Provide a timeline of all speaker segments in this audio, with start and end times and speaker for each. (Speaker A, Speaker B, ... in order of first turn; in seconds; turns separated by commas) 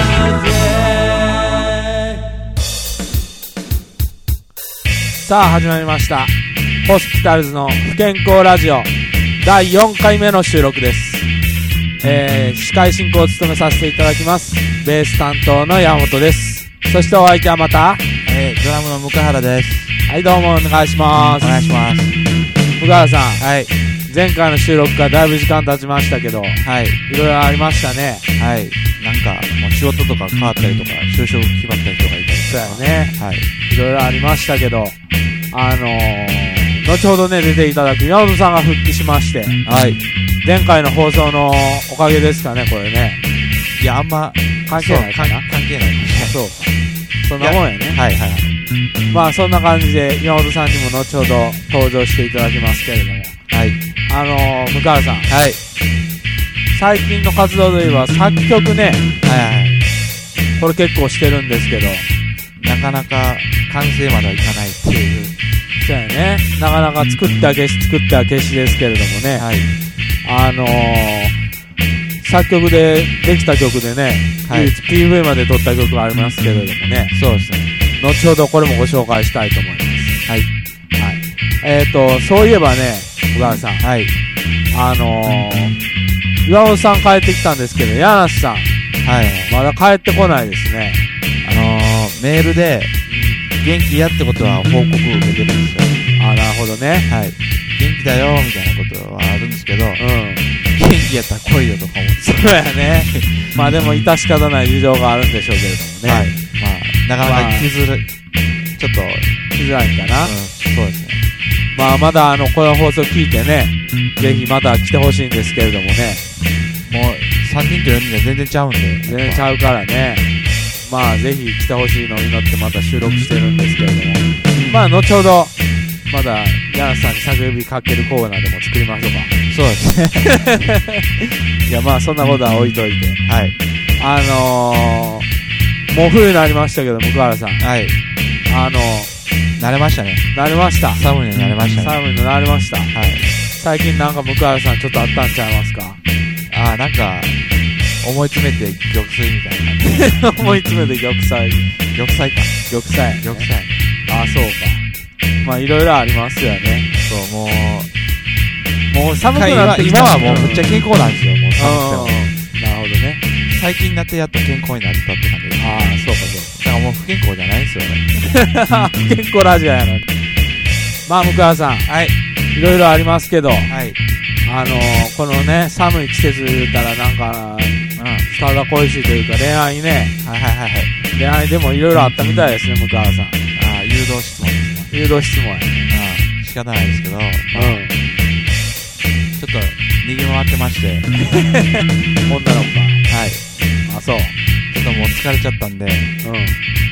Speaker A: 5.2-6.3, Speaker A: 6.8-11.3, Speaker A: 12.0-18.0, Speaker B: 18.2-19.9, Speaker A: 20.1-21.8, Speaker B: 21.4-22.1, Speaker A: 22.8-23.4, Speaker B: 23.4-23.7, Speaker A: 24.1-28.2, Speaker B: 26.6-27.0, Speaker B: 28.4-33.5, Speaker A: 32.5-33.1, Speaker A: 33.7-35.0, Speaker A: 35.5-39.6, Speaker B: 39.6-40.0, Speaker A: 40.4-43.2, Speaker B: 43.8-46.3, Speaker A: 44.7-45.4, Speaker A: 46.1-48.0, Speaker B: 47.4-48.5, Speaker A: 49.1-53.3, Speaker B: 53.5-53.8, Speaker A: 54.1-55.3, Speaker B: 55.3-55.6, Speaker A: 56.7-59.1, Speaker B: 59.2-59.8, Speaker A: 60.6-62.1, Speaker B: 62.6-65.3, Speaker A: 65.8-69.5, Speaker B: 69.3-69.7, Speaker A: 70.2-71.3, Speaker A: 72.2-77.1, Speaker B: 74.4-74.7, Speaker B: 77.1-77.7, Speaker A: 78.0-80.1, Speaker A: 81.0-83.8, Speaker B: 83.4-84.1, Speaker A: 84.7-85.7, Speaker A: 86.4-88.7, Speaker B: 89.0-89.6, Speaker A: 89.5-91.0, Speaker B: 91.4-92.9, Speaker A: 93.1-93.5, Speaker B: 93.5-96.0, Speaker A: 96.2-97.1, Speaker B: 97.1-100.0, Speaker A: 100.0-100.5, Speaker B: 100.7-103.8, Speaker A: 102.2-106.3, Speaker B: 106.0-108.1, Speaker A: 107.2-107.7, Speaker B: 108.8-109.4, Speaker A: 109.5-110.3, Speaker B: 110.2-111.2, Speaker A: 111.7-116.2, Speaker B: 116.8-119.5, Speaker A: 119.0-120.2, Speaker A: 120.8-125.5, Speaker B: 124.5-124.8, Speaker A: 126.0-129.3, Speaker B: 129.5-130.4, Speaker A: 130.4-131.0, Speaker A: 131.7-133.2, Speaker B: 133.2-133.5, Speaker A: 134.0-135.3, Speaker A: 135.9-137.6, Speaker B: 137.6-138.0, Speaker A: 138.5-139.1, Speaker B: 139.6-140.3, Speaker A: 140.3-141.0, Speaker B: 140.9-142.0, Speaker A: 141.8-142.9, Speaker B: 142.9-143.2, Speaker A: 143.6-146.0, Speaker B: 146.5-147.4, Speaker B: 148.0-150.2, Speaker A: 149.8-151.7, Speaker B: 151.9-152.6, Speaker A: 152.7-153.5, Speaker B: 153.2-153.8, Speaker A: 154.1-154.8, Speaker A: 155.4-156.9, Speaker B: 157.0-157.9, Speaker A: 158.9-160.7, Speaker B: 159.3-162.2, Speaker A: 161.6-163.2, Speaker B: 163.4-165.9, Speaker A: 165.6-166.5, Speaker B: 166.5-168.1, Speaker A: 168.2-170.1, Speaker A: 171.1-171.9, Speaker B: 171.9-172.8, Speaker A: 172.5-173.7, Speaker B: 173.7-174.0, Speaker A: 174.4-180.1, Speaker B: 177.9-178.3, Speaker B: 180.2-180.9, Speaker A: 181.1-183.4, Speaker B: 183.5-184.9, Speaker A: 184.9-185.9, Speaker B: 185.9-187.8, Speaker A: 187.5-187.9, Speaker B: 189.4-191.1, Speaker A: 191.2-193.0, Speaker B: 193.1-193.4, Speaker A: 193.8-194.3, Speaker B: 194.7-196.1, Speaker A: 196.2-196.6